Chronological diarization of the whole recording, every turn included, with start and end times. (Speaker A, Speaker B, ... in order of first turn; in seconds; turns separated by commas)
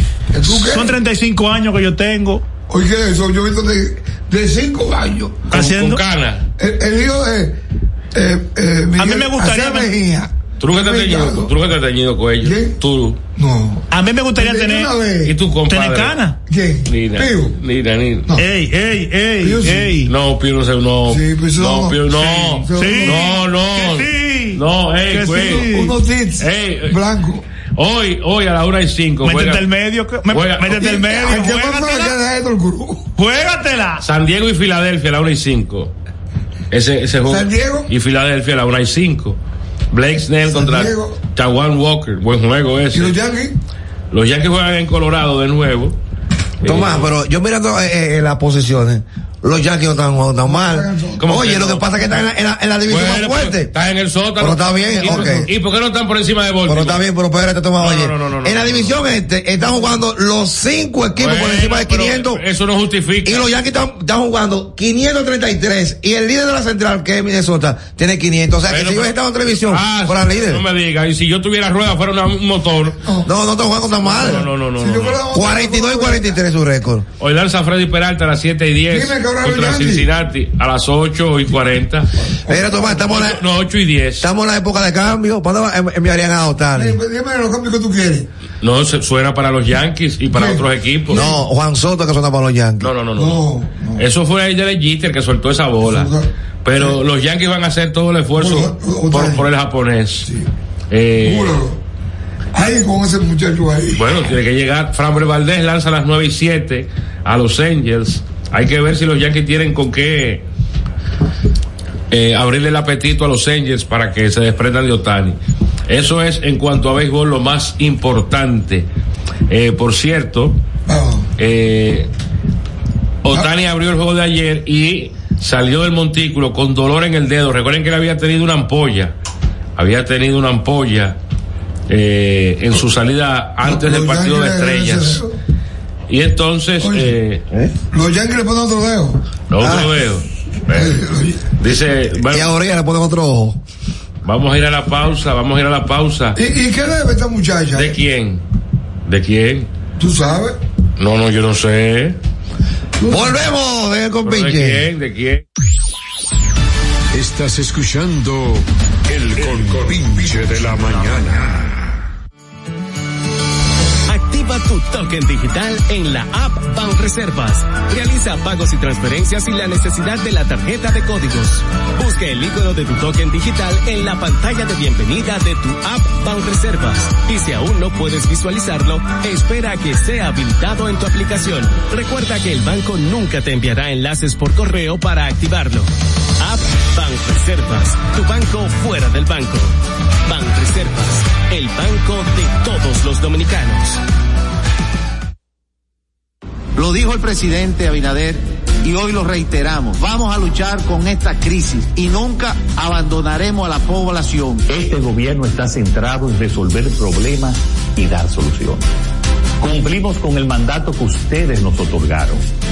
Speaker A: 0.3-1.0, Speaker B: 0.5-2.4, Speaker A: 2.7-5.5, Speaker B: 5.5-6.0, Speaker C: 5.5-6.4, Speaker A: 6.6-7.6, Speaker A: 8.1-11.5, Speaker B: 9.0-9.9, Speaker C: 10.6-13.2, Speaker A: 12.4-12.8, Speaker A: 13.4-13.9, Speaker B: 13.9-14.9, Speaker A: 14.4-15.4, Speaker C: 15.2-16.2, Speaker B: 15.7-16.4, Speaker A: 16.5-17.6, Speaker C: 16.9-18.3, Speaker B: 18.4-20.1, Speaker A: 19.4-19.9, Speaker C: 20.1-25.7, Speaker A: 21.1-23.3, Speaker B: 22.8-25.9, Speaker A: 25.3-27.4, Speaker C: 26.4-27.0, Speaker C: 27.8-29.6, Speaker B: 29.2-32.1, Speaker C: 30.3-30.8, Speaker A: 30.7-33.1, Speaker B: 33.2-34.0, Speaker C: 34.0-35.9, Speaker C: 36.7-39.4, Speaker A: 37.3-37.9, Speaker C: 39.9-43.2, Speaker A: 40.5-41.2, Speaker A: 42.9-43.6, Speaker C: 44.1-46.0, Speaker C: 46.6-47.1, Speaker D: 46.6-53.7, Speaker A: 50.4-51.3, Speaker C: 51.2-51.9, Speaker C: 52.9-57.0, Speaker D: 54.4-55.5, Speaker A: 55.0-55.5, Speaker D: 56.7-62.4, Speaker C: 57.8-59.1, Speaker C: 61.2-63.5, Speaker D: 63.2-70.6, Speaker C: 68.7-73.0, Speaker A: 73.0-73.3, Speaker D: 73.3-74.5, Speaker A: 74.0-76.4, Speaker C: 74.0-75.2, Speaker D: 75.3-77.1, Speaker C: 77.2-82.1, Speaker A: 78.9-80.1, Speaker A: 82.2-83.1, Speaker D: 82.5-83.4, Speaker C: 82.9-84.3, Speaker D: 84.2-87.0, Speaker A: 86.7-88.3, Speaker C: 88.6-91.3, Speaker A: 90.3-91.4, Speaker D: 91.1-92.9, Speaker C: 92.8-93.5, Speaker A: 93.2-94.0, Speaker C: 94.0-96.1, Speaker A: 95.8-97.0, Speaker C: 96.6-100.3, Speaker A: 98.4-99.5, Speaker C: 100.9-101.6, Speaker A: 101.2-101.8, Speaker A: 102.5-104.0, Speaker C: 104.0-110.4, Speaker C: 112.1-118.9, Speaker C: 119.5-120.6, Speaker A: 120.9-121.3, Speaker C: 121.4-122.1, Speaker C: 123.2-129.1, Speaker C: 129.8-131.2, Speaker C: 131.9-135.2, Speaker A: 133.6-135.3, Speaker C: 136.1-137.4, Speaker A: 136.8-137.1, Speaker A: 137.9-139.2, Speaker C: 139.5-141.0, Speaker D: 139.6-139.9, Speaker A: 140.7-141.4, Speaker C: 141.6-142.5, Speaker D: 142.3-143.6, Speaker C: 144.2-146.4, Speaker A: 146.3-148.0, Speaker C: 147.7-148.4, Speaker C: 149.1-149.7, Speaker A: 150.0-150.6, Speaker C: 151.0-152.2, Speaker A: 153.0-153.4, Speaker D: 153.1-154.9, Speaker C: 154.2-155.4, Speaker E: 157.2-161.7, Speaker F: 164.1-194.0, Speaker G: 196.8-204.6, Speaker H: 204.7-208.8, Speaker H: 209.6-212.4